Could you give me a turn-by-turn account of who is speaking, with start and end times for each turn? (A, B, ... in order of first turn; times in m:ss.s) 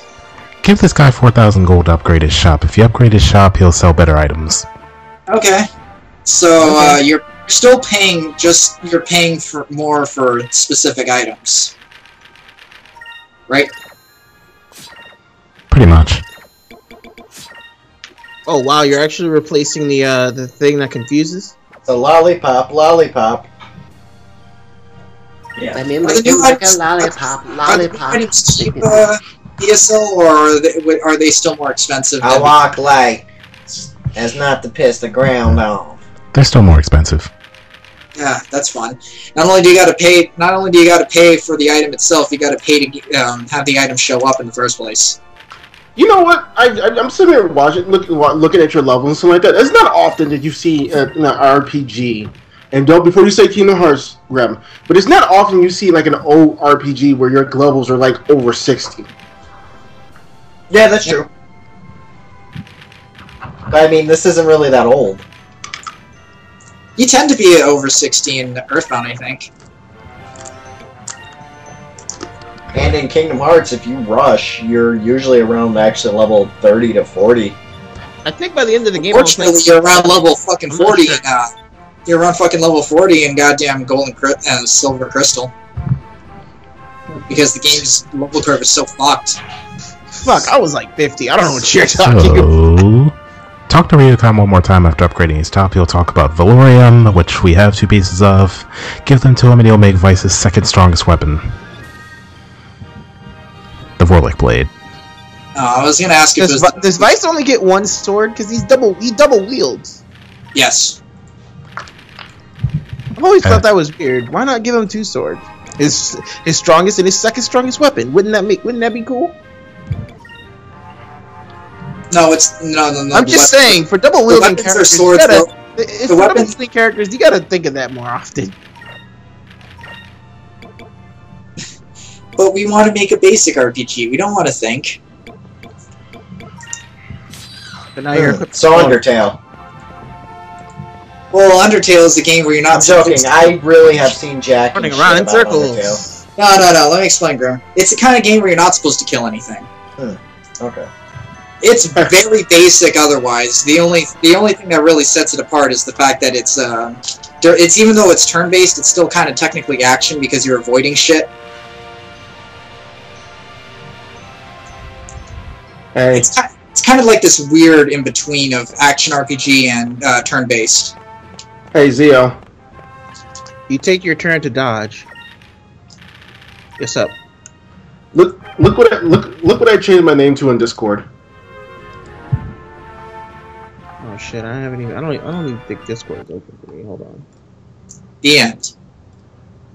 0:00.6-0:04.7 A
0:05.3-0:05.7 B
0:06.2-0:11.7 B
0:15.7-0:16.2 A
0:18.5-0:21.6 C
0:21.8-0:23.5 D
0:25.6-0:25.8 D
0:25.8-0:28.9 E
0:26.0-0:32.6 B
0:32.2-0:36.0 D
0:36.3-0:37.3 A
0:38.2-0:45.2 B
0:46.0-0:59.1 F
1:00.7-1:01.3 D
1:03.7-1:05.2 D
1:07.0-1:09.5 B
1:12.7-1:17.6 D
1:18.2-1:20.1 C
1:19.0-1:21.5 B
1:20.7-1:21.2 C
1:22.1-1:25.5 B
1:27.3-1:29.4 B
1:30.2-1:32.5 C
1:31.9-1:33.1 A
1:33.7-1:41.5 A
1:44.0-1:44.7 A
1:45.6-1:47.1 B
1:46.4-1:50.0 C
1:50.5-1:51.0 B
1:53.2-1:59.3 C
2:02.1-2:03.8 B
2:03.1-2:08.5 C
2:04.3-2:05.5 B
2:06.1-2:06.5 B
2:12.4-2:15.0 B
2:18.0-2:19.0 C
2:18.1-2:19.4 D
2:21.3-2:23.6 B
2:22.7-2:26.0 D
2:24.7-2:26.2 C
2:26.4-2:29.7 B
2:30.0-2:30.9 D
2:31.6-2:41.3 B
2:46.0-2:46.3 F
2:46.1-2:51.0 B
2:51.7-2:52.4 F
2:53.7-2:55.1 C
2:56.8-2:57.2 C
2:58.1-3:01.1 F
3:04.0-3:07.2 C
3:08.2-3:08.7 B